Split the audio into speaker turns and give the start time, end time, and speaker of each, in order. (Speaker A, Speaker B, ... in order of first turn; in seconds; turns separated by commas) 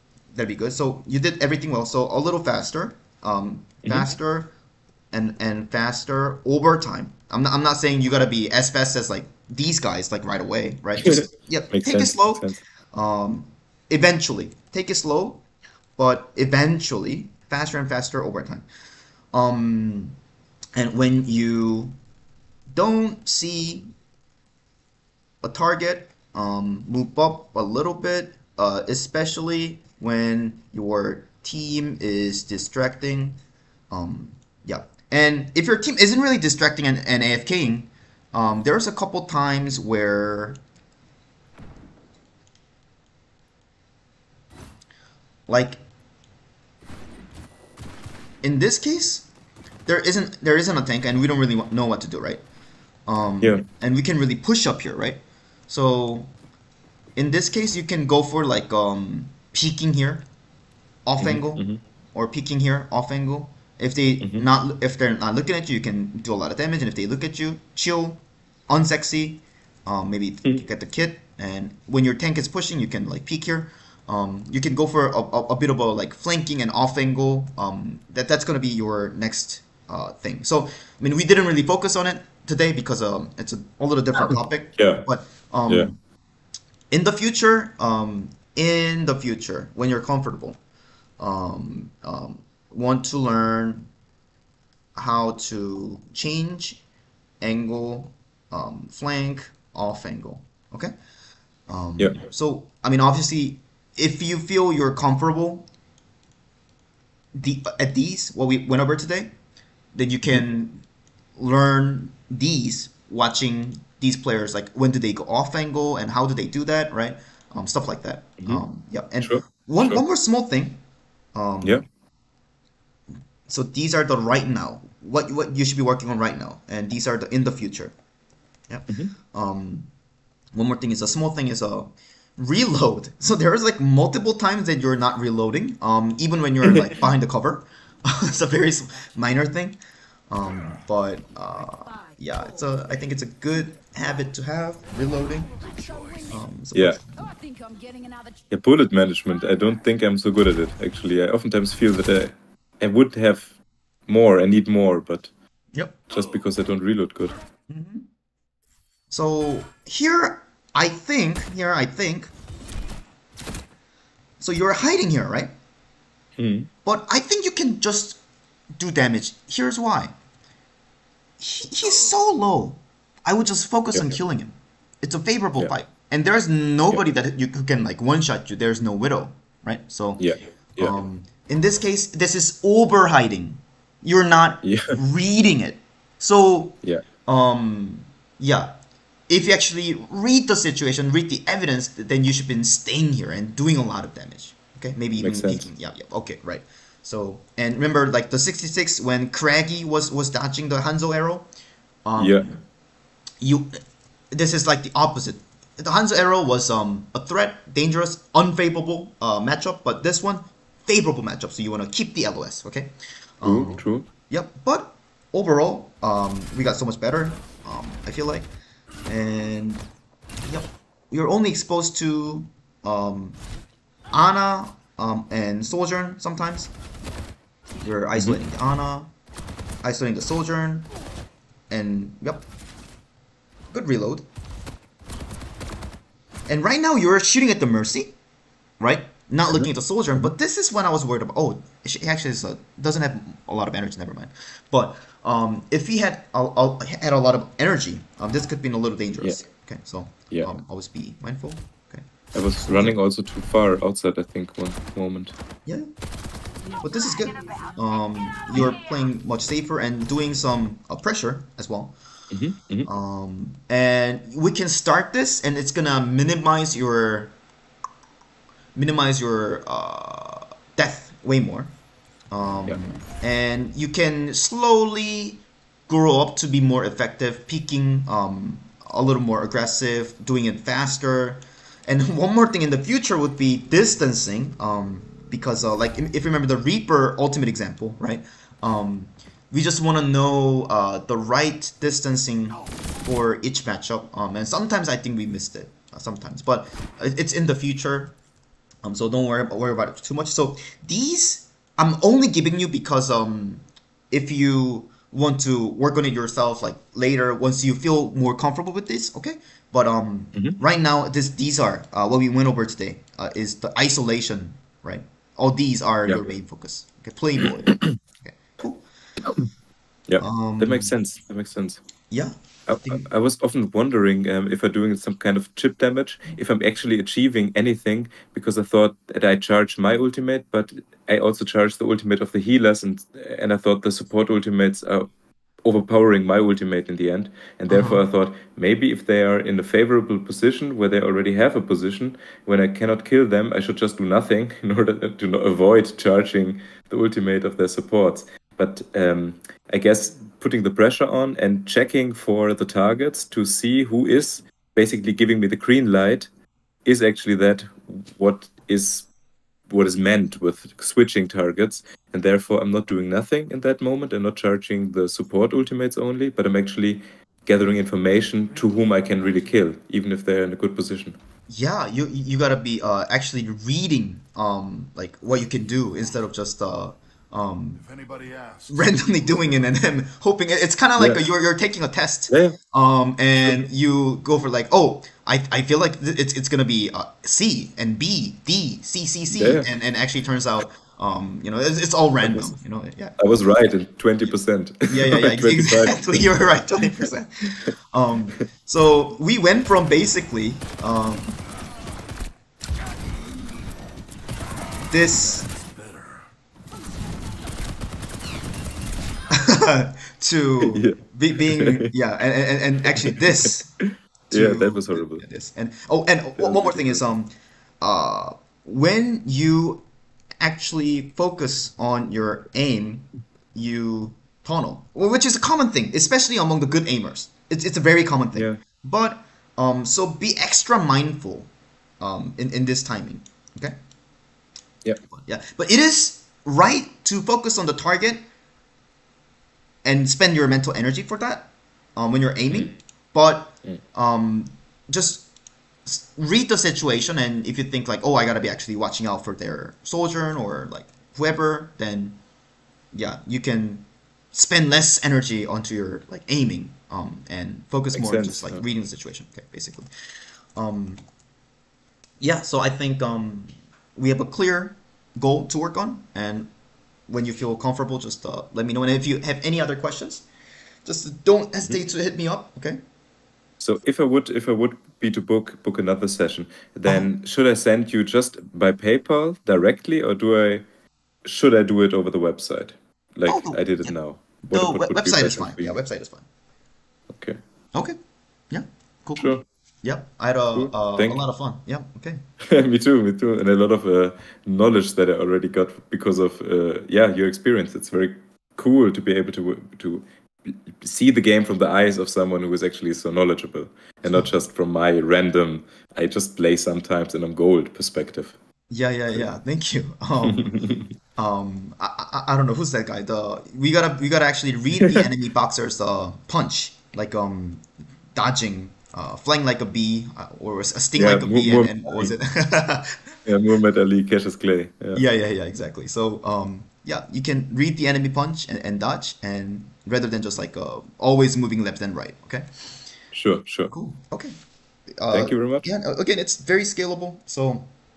Speaker A: 0.3-4.5, Speaker A: 5.1-15.4, Speaker B: 11.7-12.6, Speaker A: 16.0-18.6, Speaker A: 19.3-20.2, Speaker A: 20.7-21.9, Speaker A: 22.7-23.9, Speaker A: 25.4-33.4, Speaker A: 33.9-40.6, Speaker A: 45.5-45.8, Speaker A: 48.4-49.3, Speaker A: 49.9-52.4, Speaker A: 53.1-56.3, Speaker A: 57.1-60.3, Speaker A: 61.0-86.0, Speaker B: 61.2-61.8, Speaker B: 84.2-85.0, Speaker A: 86.9-90.6, Speaker A: 91.2-93.9, Speaker A: 94.9-96.8, Speaker A: 97.4-100.9, Speaker A: 101.7-105.7, Speaker A: 107.3-109.3, Speaker A: 109.9-110.8, Speaker A: 111.3-120.8, Speaker B: 119.2-120.0, Speaker A: 121.3-121.8, Speaker A: 123.5-127.9, Speaker A: 128.7-129.9, Speaker A: 130.5-139.8, Speaker B: 136.6-136.9, Speaker A: 140.3-145.6, Speaker C: 141.9-142.2, Speaker C: 145.6-146.3, Speaker A: 146.2-147.4, Speaker B: 146.7-147.0, Speaker C: 147.3-148.4, Speaker B: 148.5-153.5, Speaker B: 154.1-155.3, Speaker A: 155.7-156.0, Speaker B: 156.1-157.3, Speaker A: 157.7-158.1, Speaker A: 159.1-162.3, Speaker A: 164.4-165.5, Speaker B: 166.4-166.7, Speaker A: 166.8-168.2, Speaker A: 168.7-170.1, Speaker A: 171.4-180.2, Speaker B: 180.2-181.0, Speaker A: 180.8-188.7, Speaker B: 184.6-185.0, Speaker A: 189.3-201.5, Speaker B: 195.2-195.7, Speaker A: 202.0-202.6, Speaker B: 202.2-202.5, Speaker A: 203.4-203.8, Speaker A: 204.3-218.5, Speaker B: 213.4-214.1, Speaker A: 219.1-219.9, Speaker A: 220.5-223.4, Speaker A: 224.1-226.7, Speaker A: 227.8-229.1, Speaker A: 229.8-230.9, Speaker A: 231.7-232.5, Speaker A: 233.7-234.2, Speaker A: 236.5-238.2, Speaker A: 238.8-252.0, Speaker B: 250.3-250.6, Speaker B: 252.3-255.3, Speaker A: 252.6-252.9, Speaker C: 256.6-257.7, Speaker A: 256.8-261.9, Speaker B: 262.3-262.9, Speaker A: 262.9-267.4, Speaker A: 268.7-271.7, Speaker A: 272.3-298.1, Speaker A: 298.8-318.8, Speaker B: 316.1-316.3, Speaker B: 317.7-317.9, Speaker B: 320.1-321.8, Speaker A: 320.2-320.9, Speaker A: 322.1-323.1, Speaker B: 322.7-335.1, Speaker B: 335.6-356.3, Speaker A: 337.7-338.0, Speaker B: 356.8-359.1, Speaker B: 359.7-371.2, Speaker A: 371.5-393.4, Speaker B: 381.0-381.3, Speaker B: 382.3-382.6, Speaker B: 389.3-389.7, Speaker B: 392.3-392.5, Speaker B: 393.2-396.3, Speaker A: 394.9-401.4, Speaker A: 404.9-405.5, Speaker A: 409.3-413.7, Speaker B: 410.6-411.9, Speaker B: 412.9-415.2, Speaker A: 414.3-419.9, Speaker B: 416.4-417.0, Speaker A: 420.4-431.5, Speaker B: 428.3-428.6, Speaker A: 432.0-433.8, Speaker A: 435.1-438.2, Speaker A: 439.8-445.3, Speaker A: 445.9-452.2, Speaker A: 452.9-459.9, Speaker B: 457.9-458.6, Speaker A: 460.6-461.0, Speaker A: 462.2-466.5, Speaker A: 467.1-470.2, Speaker A: 470.8-472.8, Speaker B: 473.6-480.6, Speaker B: 481.2-485.8, Speaker A: 483.2-486.2, Speaker B: 487.1-487.4, Speaker A: 488.5-492.2, Speaker B: 489.2-489.4, Speaker B: 490.5-491.2, Speaker B: 492.4-508.3, Speaker A: 508.7-523.1, Speaker B: 510.2-510.9, Speaker B: 514.8-515.1, Speaker B: 521.0-522.1, Speaker B: 523.2-525.0, Speaker A: 524.9-532.5, Speaker B: 533.1-533.7, Speaker A: 533.7-534.3, Speaker A: 535.0-537.7, Speaker B: 535.1-535.7